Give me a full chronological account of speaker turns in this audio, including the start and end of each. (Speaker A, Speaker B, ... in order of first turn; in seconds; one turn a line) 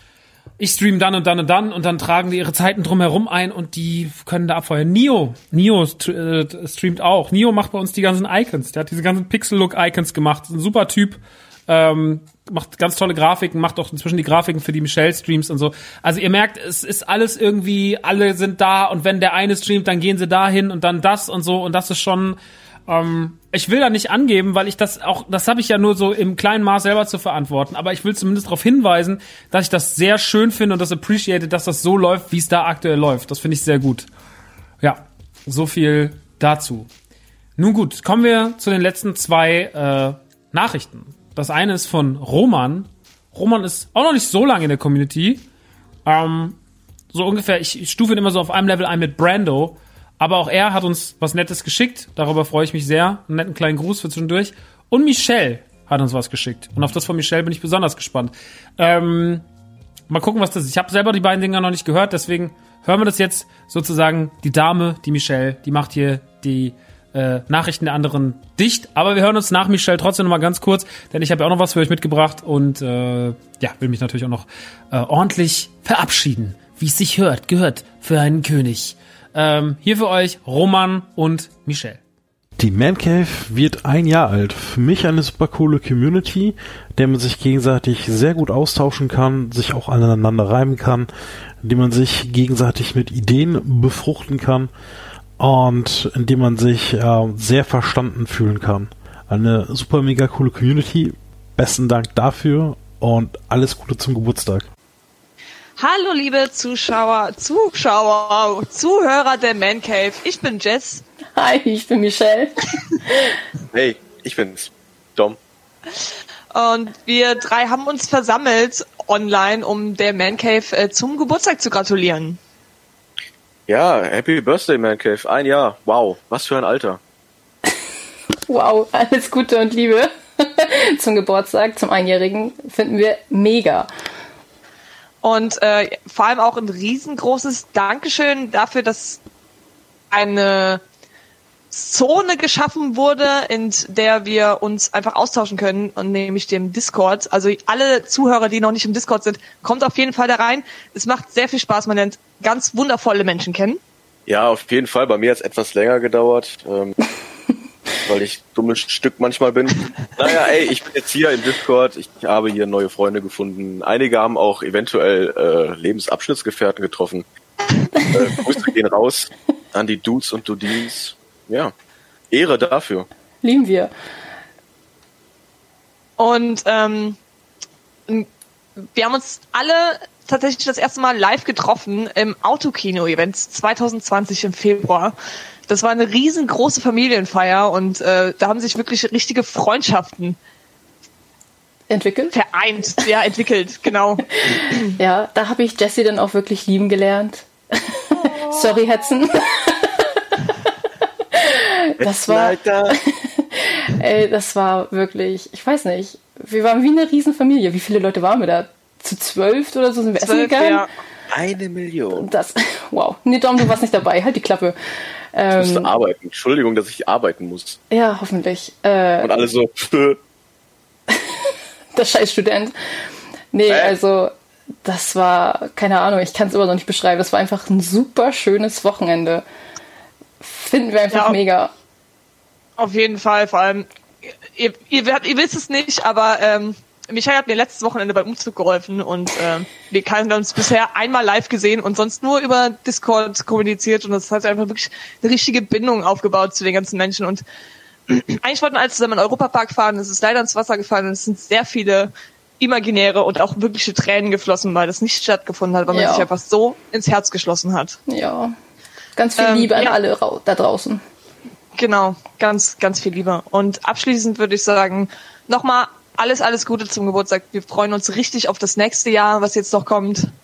Speaker A: 0.6-34.1
Speaker A: 34.8-36.9
Speaker A: 37.6-45.4
Speaker A: 46.1-46.6
Speaker A: 47.1-59.5
Speaker A: 60.1-82.0
Speaker B: 82.6-91.1
Speaker B: 91.6-94.7
Speaker B: 95.4-104.7
Speaker C: 105.8-111.0
Speaker D: 111.4-112.7
Speaker E: 113.7-115.4
Speaker C: 116.5-122.4
Speaker E: 123.7-127.0
Speaker D: 128.5-133.9
Speaker C: 135.2-139.2
Speaker C: 140.1-140.8
Speaker C: 141.7-153.8
Speaker E: 154.3-156.9
Speaker E: 158.1-167.2
Speaker E: 168.1-171.7
Speaker E: 172.3-173.1
Speaker D: 173.4-173.9
Speaker C: 176.2-177.2
Speaker C: 178.9-185.2
Speaker C: 185.7-190.4
Speaker D: 191.9-192.4
Speaker C: 192.3-194.2
Speaker D: 194.4-199.9
Speaker D: 201.4-210.8
Speaker E: 202.0-203.0
Speaker C: 210.2-210.9
Speaker E: 211.3-212.3
Speaker D: 212.2-214.8
Speaker D: 215.3-215.9
Speaker E: 215.6-217.8
Speaker D: 217.9-219.3
Speaker E: 219.2-220.2
Speaker D: 221.9-222.8
Speaker D: 223.5-224.3
Speaker E: 223.7-223.9
Speaker D: 224.8-229.4
Speaker D: 230.4-231.7
Speaker C: 231.1-231.4
Speaker C: 232.8-233.9
Speaker C: 234.5-247.4
Speaker C: 248.1-258.0
Speaker D: 255.9-256.3
Speaker D: 258.1-258.6
Speaker D: 259.2-261.0
Speaker C: 259.4-260.0
Speaker C: 261.8-270.3